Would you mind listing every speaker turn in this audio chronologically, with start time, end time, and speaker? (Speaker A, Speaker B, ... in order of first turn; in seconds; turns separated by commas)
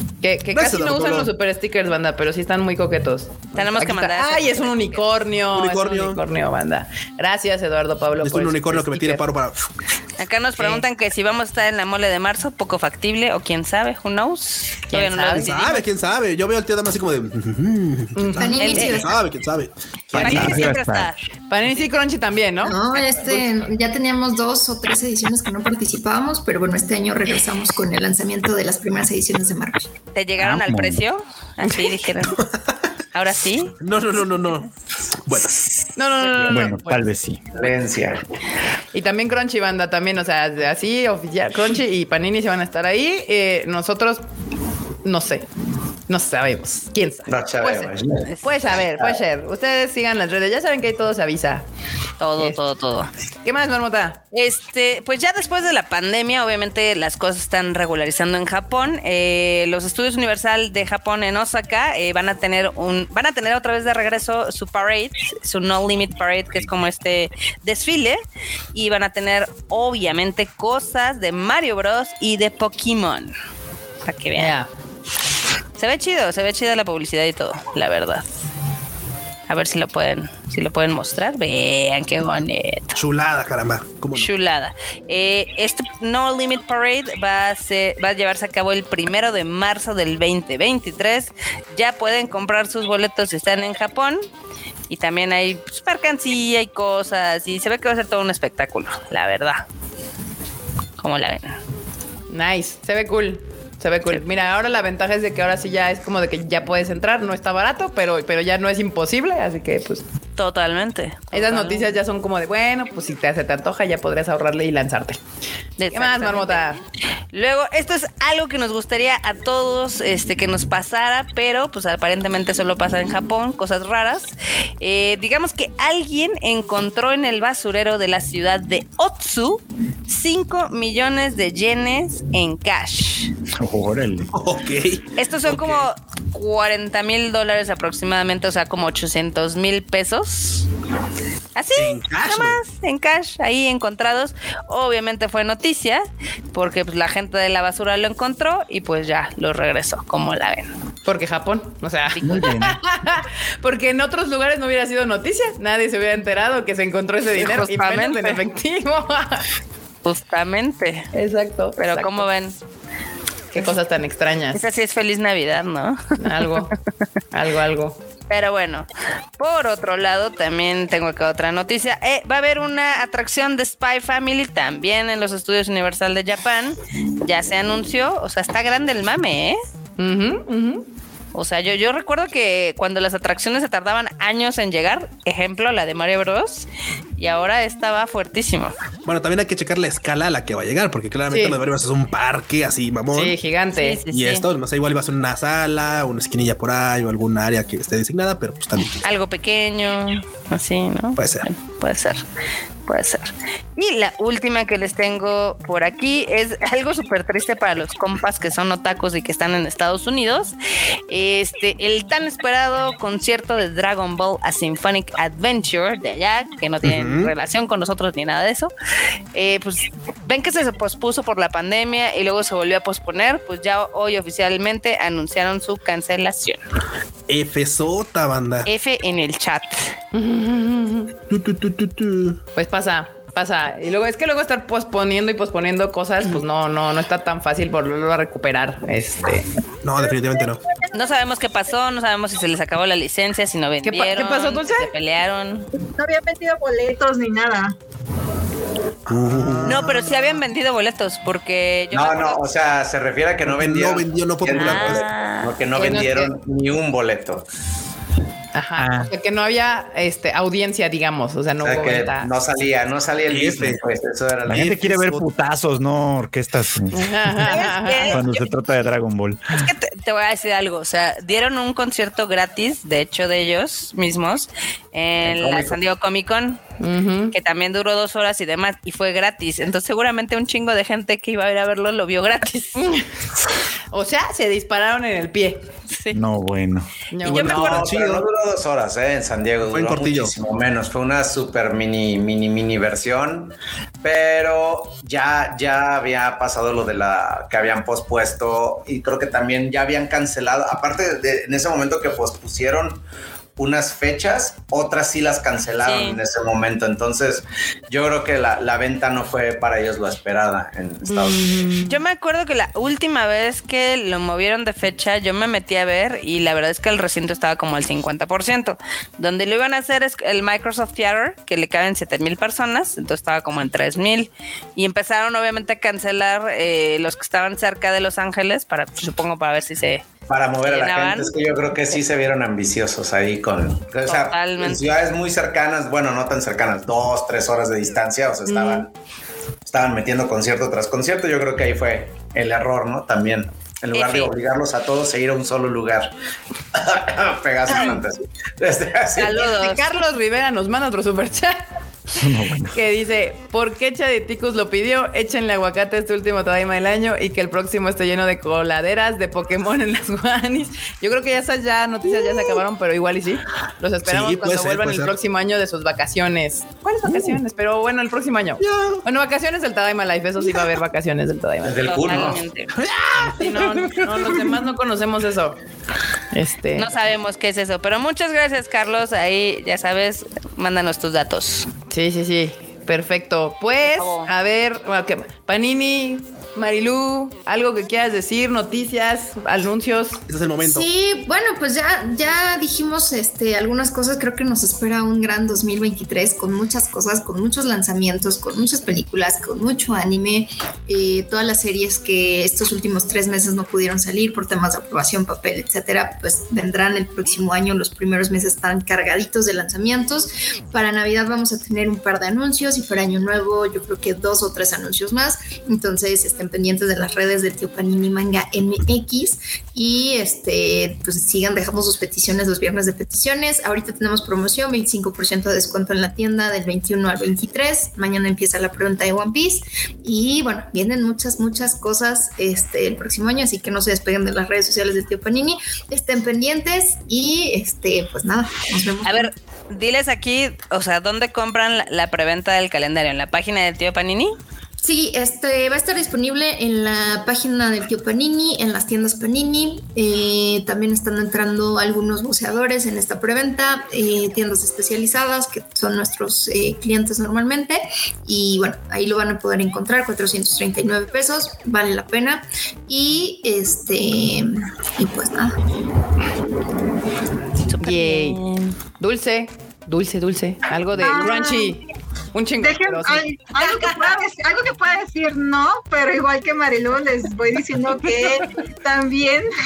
Speaker A: 0.2-9.2, Speaker B: 0.5-1.3, Speaker C: 3.5-5.0, Speaker B: 5.5-6.2, Speaker B: 8.2-9.7, Speaker C: 10.2-15.8, Speaker A: 10.6-10.8, Speaker A: 14.9-15.5, Speaker B: 15.3-20.6, Speaker A: 18.1-18.7, Speaker D: 18.4-19.1, Speaker C: 18.6-19.1, Speaker E: 20.1-21.1, Speaker C: 20.1-21.2, Speaker A: 21.5-22.7, Speaker D: 22.6-29.8, Speaker C: 23.1-23.4, Speaker C: 30.1-32.4, Speaker E: 30.4-31.0, Speaker C: 33.1-33.7, Speaker B: 33.8-34.7, Speaker B: 35.2-35.6, Speaker A: 36.0-37.0, Speaker E: 36.5-37.4, Speaker F: 37.5-38.2, Speaker A: 38.9-44.2, Speaker A: 45.0-45.4, Speaker A: 46.1-47.9, Speaker F: 47.3-48.3, Speaker A: 48.4-51.6, Speaker C: 52.2-53.1, Speaker A: 53.4-54.2, Speaker C: 54.3-68.2, Speaker C: 68.7-73.3, Speaker C: 74.0-74.5, Speaker A: 74.3-74.7, Speaker C: 75.8-78.3, Speaker C: 79.5-83.0, Speaker B: 82.9-84.3, Speaker C: 84.1-94.2, Speaker C: 94.9-99.6, Speaker C: 101.0-101.6, Speaker A: 102.3-110.0, Speaker C: 110.4-111.9, Speaker A: 111.3-115.2, Speaker C: 115.8-116.7, Speaker A: 115.9-116.8, Speaker C: 117.3-133.3, Speaker E: 133.6-134.3, Speaker B: 134.3-135.9, Speaker C: 135.2-140.7, Speaker C: 141.6-150.7, Speaker B: 141.7-142.6, Speaker A: 151.0-159.4, Speaker C: 152.2-152.4, Speaker E: 152.2-152.8, Speaker C: 157.3-158.4, Speaker C: 160.0-161.1, Speaker A: 161.1-162.3, Speaker C: 161.8-162.6, Speaker A: 163.5-164.6, Speaker C: 164.5-166.7, Speaker A: 166.2-166.7, Speaker A: 167.3-168.0, Speaker C: 168.3-168.8, Speaker C: 169.4-179.6, Speaker A: 180.0-180.8, Speaker C: 181.3-186.7, Speaker C: 187.2-188.7, Speaker B: 189.0-193.3, Speaker A: 191.3-191.6, Speaker A: 193.1-194.0, Speaker C: 193.8-194.4, Speaker B: 194.1-199.0, Speaker C: 199.0-202.2, Speaker B: 201.2-201.5, Speaker C: 202.9-210.5, Speaker C: 211.1-218.7, Speaker B: 216.8-217.3, Speaker C: 219.3-226.6, Speaker B: 227.3-228.7, Speaker C: 228.7-229.9, Speaker A: 230.1-231.1, Speaker B: 231.3-232.4, Speaker A: 232.6-239.5, Speaker B: 239.8-240.6, Speaker C: 240.9-245.7, Speaker A: 243.8-244.9, Speaker G: 245.8-247.8, Speaker B: 249.1-250.3, Speaker C: 249.6-252.4, Speaker F: 251.9-257.4, Speaker B: 253.4-255.1, Speaker C: 254.5-255.6, Speaker A: 255.7-256.3, Speaker A: 258.5-262.3, Speaker E: 258.8-259.1, Speaker F: 261.6-265.1, Speaker B: 263.3-263.8, Speaker E: 264.5-269.7, Speaker B: 264.6-265.2, Speaker A: 266.9-268.2, Speaker C: 267.4-268.5, Speaker C: 269.5-276.6, Speaker F: 275.2-275.8, Speaker A: 276.8-277.3, Speaker C: 277.3-282.9, Speaker A: 282.8-283.1, Speaker A: 283.9-285.6, Speaker C: 285.9-286.2, Speaker E: 286.1-286.9, Speaker A: 287.1-287.8, Speaker B: 287.2-288.3, Speaker C: 287.3-287.7, Speaker F: 287.3-303.0, Speaker B: 289.6-290.3, Speaker F: 303.6-311.6, Speaker C: 305.8-306.2, Speaker A: 311.1-312.0, Speaker C: 311.8-330.1, Speaker F: 330.3-338.9, Speaker C: 330.6-331.3, Speaker C: 334.0-334.9, Speaker A: 338.5-338.8, Speaker F: 339.6-346.1, Speaker C: 343.9-344.3, Speaker F: 346.7-349.5, Speaker C: 349.2-349.9, Speaker A: 349.3-351.6, Speaker E: 352.1-352.8, Speaker A: 352.7-371.9, Speaker B: 362.2-362.6, Speaker B: 364.0-365.2, Speaker B: 367.1-367.4, Speaker B: 368.6-369.0, Speaker F: 371.6-372.4, Speaker C: 371.9-372.7, Speaker B: 372.7-374.3, Speaker A: 373.4-375.6, Speaker A: 376.3-376.9, Speaker C: 376.8-381.7, Speaker A: 381.9-390.2, Speaker C: 383.8-384.3, Speaker B: 390.3-390.9, Speaker D: 390.6-439.3, Speaker C: 439.0-444.3, Speaker D: 444.8-465.6, Speaker C: 467.7-468.7, Speaker A: 467.8-468.4, Speaker A: 469.0-471.8, Speaker G: 471.0-471.8, Speaker A: 472.3-473.2, Speaker G: 472.6-479.5